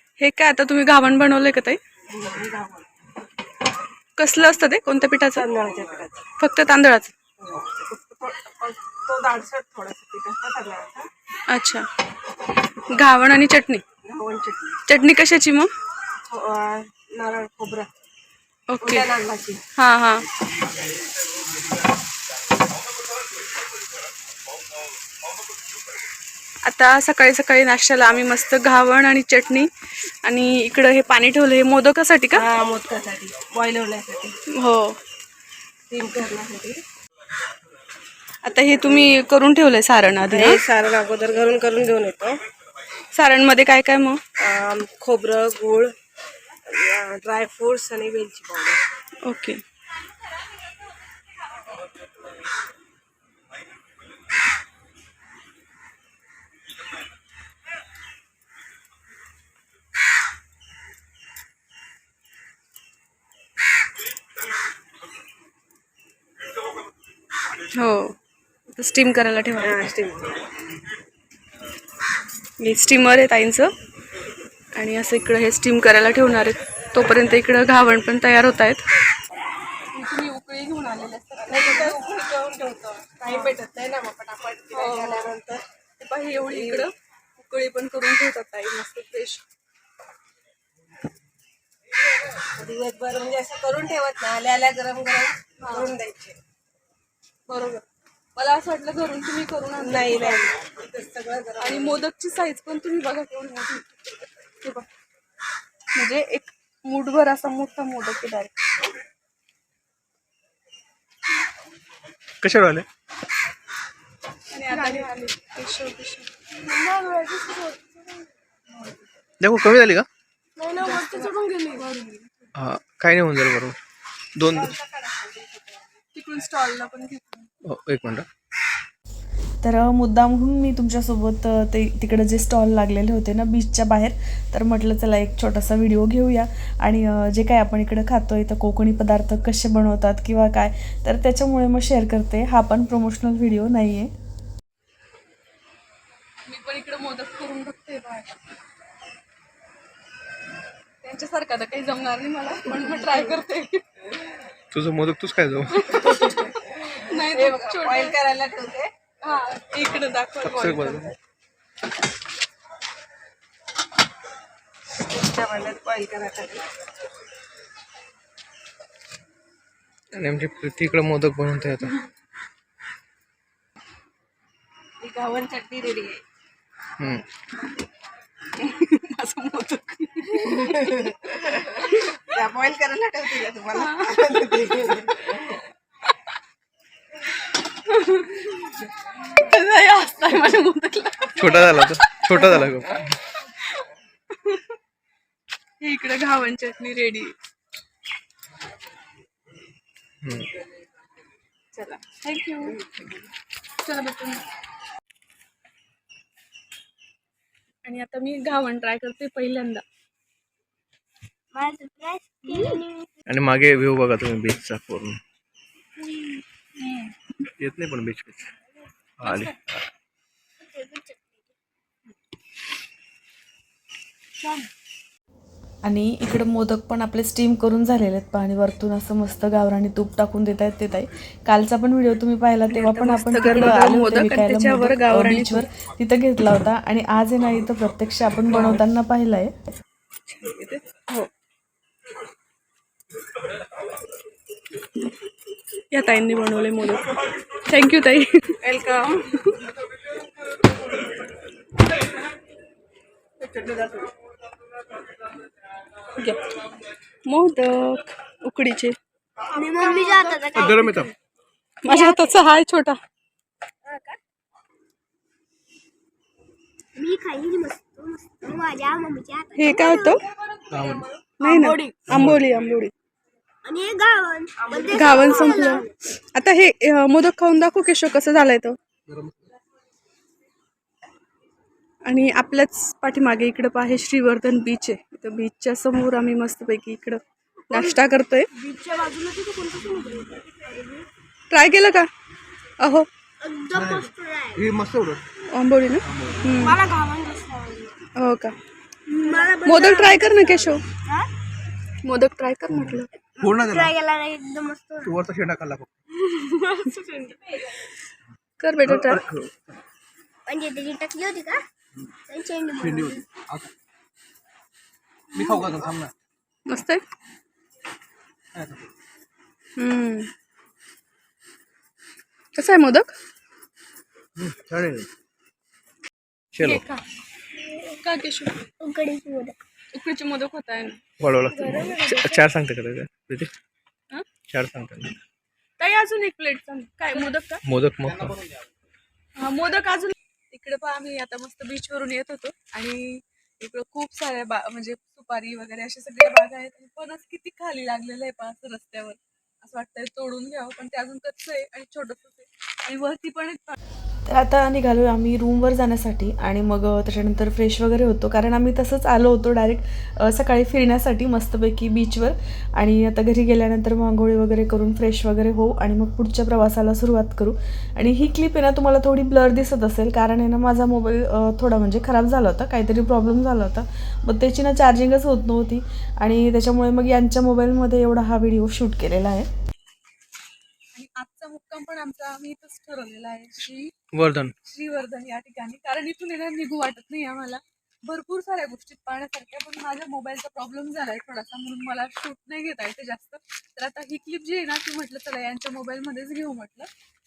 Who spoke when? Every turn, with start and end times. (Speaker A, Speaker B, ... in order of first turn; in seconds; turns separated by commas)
Speaker A: 0.2-1.8, Speaker B: 2.1-2.9, Speaker A: 4.2-5.4, Speaker B: 5.3-6.2, Speaker A: 6.4-7.1, Speaker B: 7.4-11.1, Speaker A: 11.5-11.8, Speaker A: 12.9-13.8, Speaker B: 14.0-14.8, Speaker A: 14.9-15.7, Speaker B: 16.3-17.9, Speaker A: 18.7-19.1, Speaker B: 18.8-19.6, Speaker A: 19.7-20.2, Speaker A: 26.6-29.7, Speaker A: 30.2-32.4, Speaker B: 32.3-34.3, Speaker A: 34.5-35.0, Speaker B: 35.9-36.8, Speaker A: 38.4-40.6, Speaker B: 40.3-42.4, Speaker A: 43.1-44.2, Speaker B: 44.4-45.9, Speaker B: 46.6-48.8, Speaker A: 49.2-49.6, Speaker A: 67.7-68.1, Speaker A: 68.7-69.8, Speaker B: 69.6-70.4, Speaker A: 72.6-73.7, Speaker A: 74.7-78.8, Speaker A: 79.9-82.0, Speaker B: 81.5-85.6, Speaker A: 83.3-83.5, Speaker A: 84.7-85.3, Speaker A: 86.0-89.4, Speaker B: 86.5-86.9, Speaker B: 92.4-96.4, Speaker A: 95.6-95.9, Speaker A: 97.5-97.8, Speaker A: 98.3-100.5, Speaker B: 99.8-102.0, Speaker A: 101.6-103.9, Speaker A: 105.9-108.5, Speaker C: 112.4-112.8, Speaker A: 114.5-116.3, Speaker B: 114.7-115.1, Speaker B: 116.6-117.9, Speaker A: 118.7-119.0, Speaker C: 119.4-120.1, Speaker B: 120.6-121.8, Speaker A: 120.8-122.5, Speaker C: 122.5-123.8, Speaker C: 124.3-124.7, Speaker A: 125.1-125.3, Speaker B: 125.4-125.8, Speaker A: 126.1-127.5, Speaker C: 127.6-128.2, Speaker D: 129.6-144.1, Speaker A: 146.4-148.3, Speaker A: 151.0-153.8, Speaker C: 154.7-155.9, Speaker A: 155.7-158.2, Speaker B: 157.3-158.9, Speaker A: 159.2-161.1, Speaker C: 160.4-161.1, Speaker B: 165.0-166.6, Speaker C: 170.1-171.9, Speaker B: 175.0-176.2, Speaker C: 177.0-177.2, Speaker A: 178.6-181.2, Speaker B: 180.7-181.1, Speaker B: 182.3-185.3, Speaker A: 183.7-184.4, Speaker A: 187.8-192.7, Speaker C: 191.4-193.1, Speaker A: 195.8-197.3, Speaker C: 200.2-200.5, Speaker A: 201.7-202.8, Speaker A: 203.8-204.4, Speaker A: 207.8-209.8, Speaker E: 211.5-213.1, Speaker A: 212.5-212.8, Speaker C: 213.3-215.2, Speaker A: 216.0-217.1, Speaker C: 217.6-218.5, Speaker C: 219.2-219.8, Speaker A: 219.2-219.5, Speaker E: 220.6-221.5, Speaker D: 225.8-239.5, Speaker A: 232.7-235.7, Speaker A: 238.5-238.8, Speaker A: 240.3-241.3, Speaker A: 245.9-247.1, Speaker A: 247.6-248.6, Speaker B: 248.6-249.2, Speaker A: 256.2-256.4, Speaker A: 257.2-258.9, Speaker E: 259.5-261.0, Speaker C: 260.5-261.1, Speaker A: 261.8-263.0, Speaker E: 261.9-262.4, Speaker E: 266.9-270.2, Speaker A: 269.5-270.2, Speaker C: 270.7-271.1, Speaker A: 271.4-272.9, Speaker B: 271.4-271.9, Speaker C: 272.1-272.4, Speaker E: 273.6-275.9, Speaker B: 274.6-275.8, Speaker A: 274.9-278.8, Speaker A: 282.0-288.5, Speaker E: 288.5-291.1, Speaker A: 291.5-292.1, Speaker A: 292.8-293.1, Speaker E: 293.4-294.6, Speaker C: 293.7-295.2, Speaker A: 295.5-296.8, Speaker C: 296.1-296.5, Speaker E: 296.6-297.9, Speaker A: 298.1-298.6, Speaker E: 299.1-300.3, Speaker A: 299.3-300.8, Speaker A: 302.0-303.1, Speaker E: 303.4-305.1, Speaker C: 303.4-303.9, Speaker C: 305.0-305.9, Speaker E: 306.2-307.4, Speaker A: 308.6-309.2, Speaker C: 308.8-309.7, Speaker E: 310.5-311.6, Speaker E: 312.3-313.2, Speaker C: 312.8-313.7, Speaker C: 315.3-316.1, Speaker A: 316.7-317.0, Speaker A: 319.8-320.3, Speaker A: 322.5-323.1, Speaker C: 324.4-325.1, Speaker C: 326.5-326.8, Speaker A: 326.6-327.0, Speaker A: 328.0-328.6, Speaker E: 328.8-329.6, Speaker A: 329.9-331.0, Speaker C: 331.2-333.5, Speaker A: 331.7-332.4, Speaker C: 334.5-335.1, Speaker A: 335.8-337.6, Speaker C: 337.6-338.4, Speaker A: 339.4-353.7, Speaker D: 354.3-379.5, Speaker A: 380.9-383.9, Speaker C: 384.1-384.5, Speaker A: 384.6-396.9